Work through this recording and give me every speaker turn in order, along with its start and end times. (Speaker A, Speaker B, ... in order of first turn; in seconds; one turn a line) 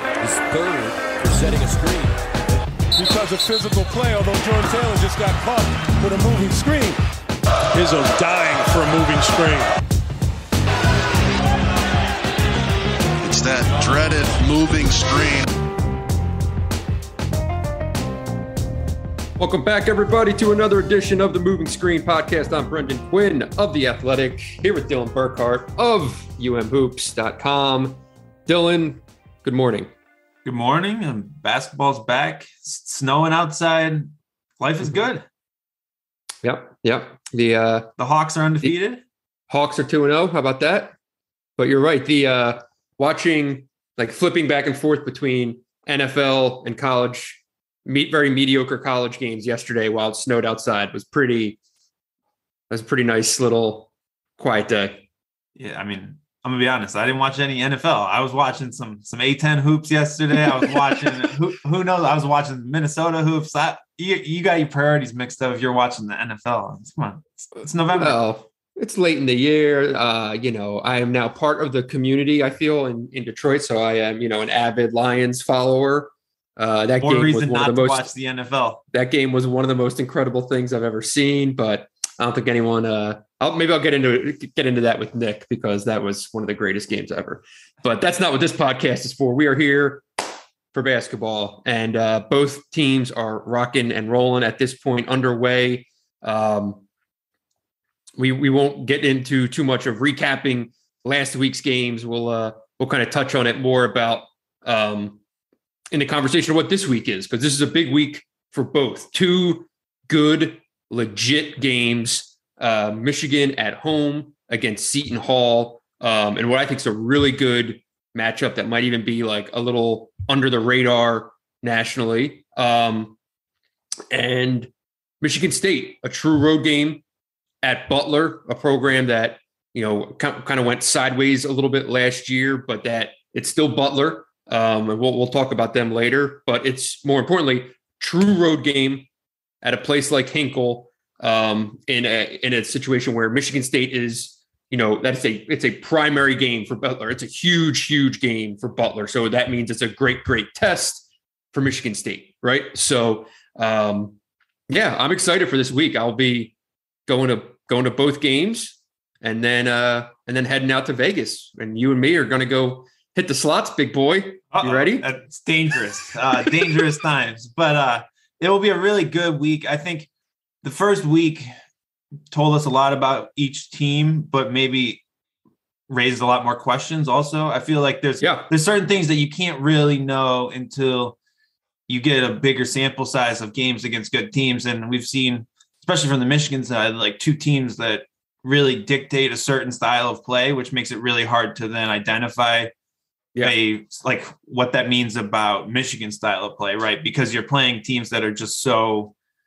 Speaker A: 0.2-2.2
Speaker B: 2.9-7.0
Speaker B: 7.7-9.7
Speaker C: 13.2-15.6
Speaker D: 19.4-29.9
Speaker E: 30.4-35.2
Speaker D: 36.4-37.9
Speaker E: 38.0-39.0
Speaker D: 39.5-41.0
Speaker D: 41.6-51.6
Speaker D: 52.7-55.0
Speaker E: 55.6-68.2
Speaker D: 67.9-78.1
Speaker E: 77.0-78.8
Speaker D: 78.9-96.8
Speaker D: 98.2-105.2
Speaker D: 105.9-123.2
Speaker D: 124.1-127.0
Speaker D: 127.6-139.1
Speaker D: 139.6-154.2
Speaker D: 154.7-156.5
Speaker D: 157.1-165.1
Speaker E: 164.5-170.1
Speaker E: 170.6-171.5
Speaker E: 172.3-175.0
Speaker E: 175.9-181.2
Speaker D: 178.2-178.5
Speaker E: 181.9-192.7
Speaker E: 193.4-199.1